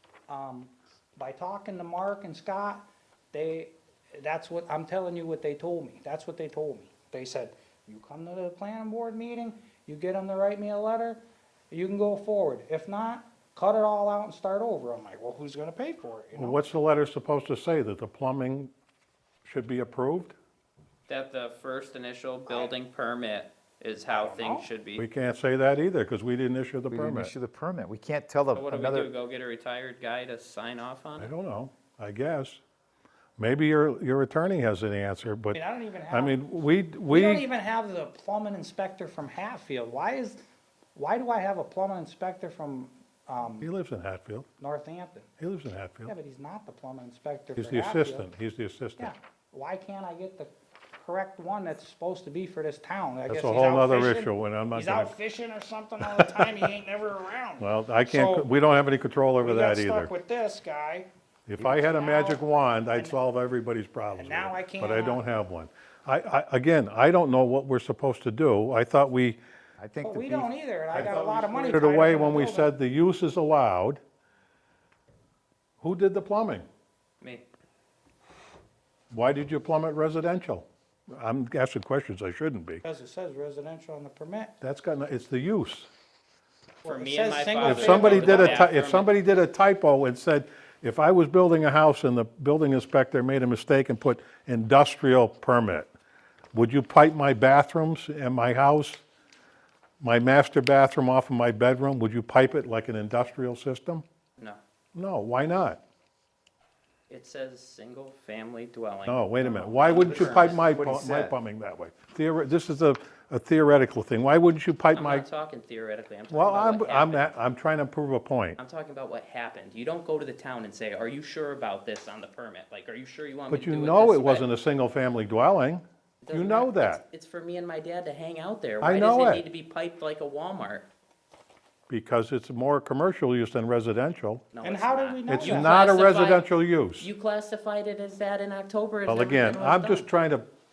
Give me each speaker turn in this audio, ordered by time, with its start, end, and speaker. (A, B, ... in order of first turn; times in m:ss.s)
0:00.3-0:16.6 A
0:16.3-0:18.7 B
0:19.4-0:20.3 B
0:21.1-0:25.0 C
0:22.5-0:22.7 A
0:24.1-0:24.7 A
0:25.0-0:27.3 B
0:26.9-0:29.1 D
0:28.5-0:31.3 C
0:31.2-0:32.6 B
0:33.4-0:37.4 B
0:35.5-0:36.4 A
0:37.1-0:40.4 A
0:40.9-0:43.7 A
0:43.6-0:44.5 B
0:44.6-0:45.3 A
0:45.4-0:46.1 B
0:46.0-0:48.3 A
0:47.6-0:49.1 B
0:49.0-0:58.5 A
0:53.3-0:55.1 B
0:56.0-0:56.7 B
0:57.6-1:00.1 B
0:59.4-1:01.1 A
1:01.5-1:09.4 B
1:01.6-1:01.8 D
1:01.7-1:03.2 A
1:04.1-1:05.2 A
1:09.8-1:10.5 D
1:10.0-1:12.7 A
1:10.9-1:14.0 B
1:15.8-1:16.6 B
1:19.1-1:22.8 B
1:22.8-1:24.5 A
1:24.6-1:25.9 B
1:26.8-1:28.7 A
1:26.8-1:29.1 C
1:27.6-1:35.9 B
1:36.5-1:39.0 B
1:40.0-1:44.0 B
1:44.9-1:45.8 B
1:47.1-1:50.8 C
1:49.0-1:55.2 B
1:50.6-1:51.3 D
1:54.9-1:57.3 C
1:56.3-1:58.6 B
1:58.6-2:04.5 C
2:03.5-2:07.0 B
2:06.2-2:10.9 C
2:08.8-2:09.4 B
2:11.9-2:14.4 B
2:14.5-2:16.5 C
2:14.6-2:15.7 A
2:15.2-2:17.1 B
2:17.0-2:20.1 C
2:19.0-2:20.5 B